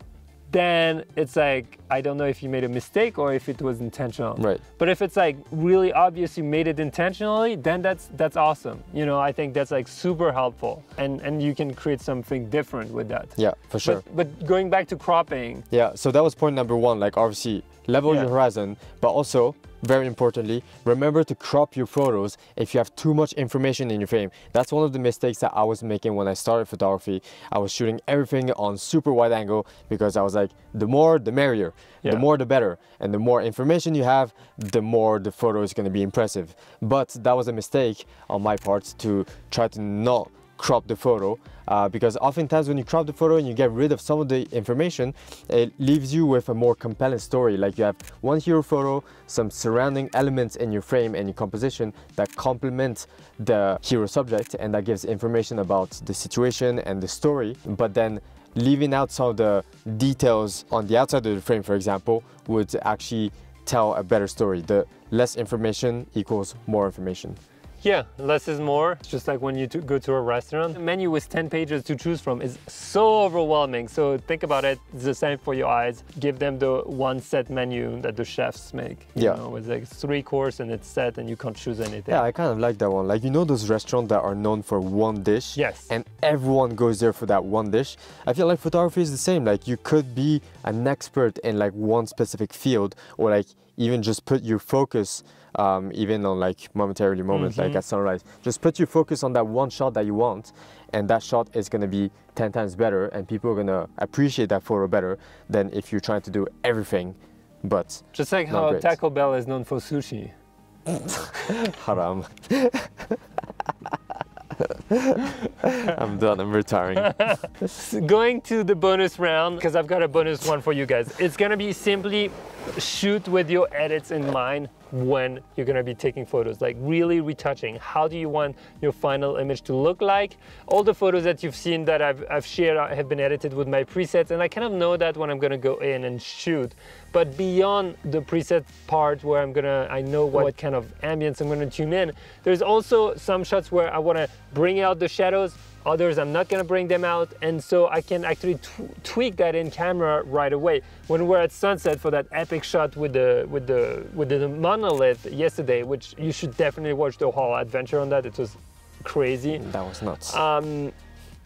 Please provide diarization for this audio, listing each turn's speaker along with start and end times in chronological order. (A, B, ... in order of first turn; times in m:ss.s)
0:00.5-0:15.6 A
0:04.4-0:04.6 B
0:13.4-0:14.0 B
0:15.7-1:07.4 B
1:07.8-1:22.2 A
1:22.1-1:49.0 B
1:25.6-1:25.9 A
1:37.3-1:37.8 A
1:48.1-1:50.3 A
1:51.5-1:53.2 B
1:54.9-1:57.2 B
1:57.0-2:39.7 A
2:39.6-2:40.4 B
2:40.2-2:40.9 A